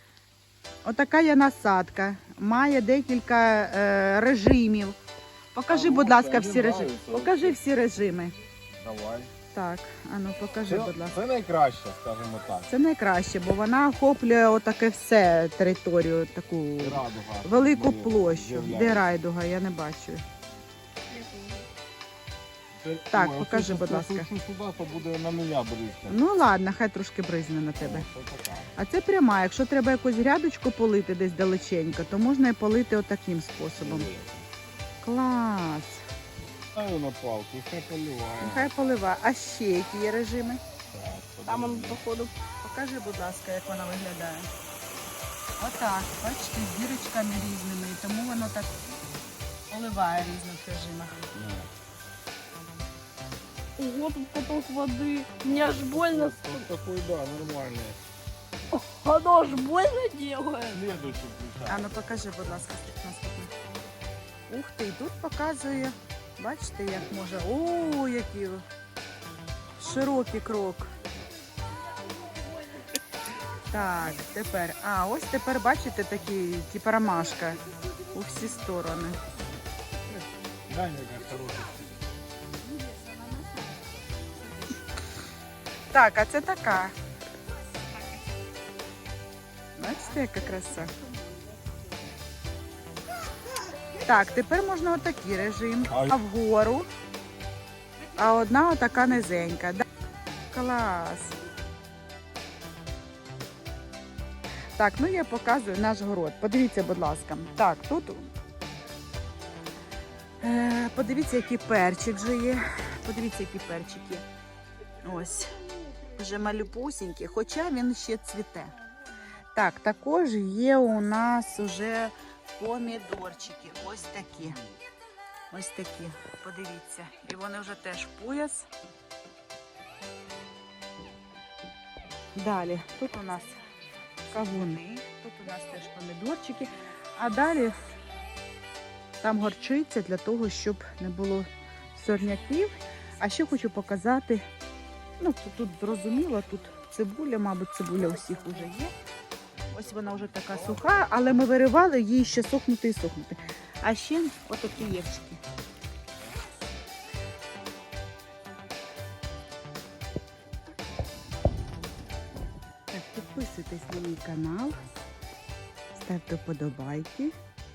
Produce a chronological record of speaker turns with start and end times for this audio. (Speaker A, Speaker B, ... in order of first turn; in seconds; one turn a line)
Speaker A: 0.8-5.0
Speaker A: 5.5-8.3
Speaker B: 5.7-7.6
Speaker B: 8.8-9.3
Speaker A: 9.5-11.2
Speaker B: 10.7-12.7
Speaker A: 12.7-20.2
Speaker B: 16.8-19.1
Speaker C: 21.1-21.7
Speaker B: 22.8-26.2
Speaker A: 23.1-24.3
Speaker A: 26.1-28.1
Speaker B: 27.8-28.7
Speaker A: 28.8-34.1
Speaker B: 33.8-34.5
Speaker A: 35.0-36.0
Speaker B: 36.8-38.7
Speaker A: 38.4-40.6
Speaker B: 40.9-42.0
Speaker C: 41.5-42.3
Speaker A: 42.6-44.5
Speaker A: 45.6-48.8
Speaker A: 49.7-51.2
Speaker B: 51.3-51.7
Speaker C: 53.8-56.7
Speaker B: 55.5-58.0
Speaker C: 58.7-60.8
Speaker B: 60.7-61.9
Speaker A: 61.7-63.5
Speaker A: 64.5-68.6
Speaker A: 69.8-70.9
Speaker A: 73.7-79.2
Speaker B: 80.7-81.8
Speaker A: 85.9-86.9
Speaker A: 89.8-90.9
Speaker A: 94.0-96.9
Speaker B: 95.9-96.2
Speaker A: 98.2-99.8
Speaker A: 100.5-101.4
Speaker A: 104.8-108.3
Speaker A: 110.4-114.2
Speaker A: 115.0-115.6
Speaker A: 116.1-118.8
Speaker A: 119.5-124.6
Speaker A: 125.5-128.7
Speaker A: 132.4-133.6
Speaker A: 134.3-137.8
Speaker A: 139.2-144.4
Speaker A: 145.2-148.9
Speaker A: 149.7-155.4
Speaker A: 162.9-164.8
Speaker A: 165.9-167.3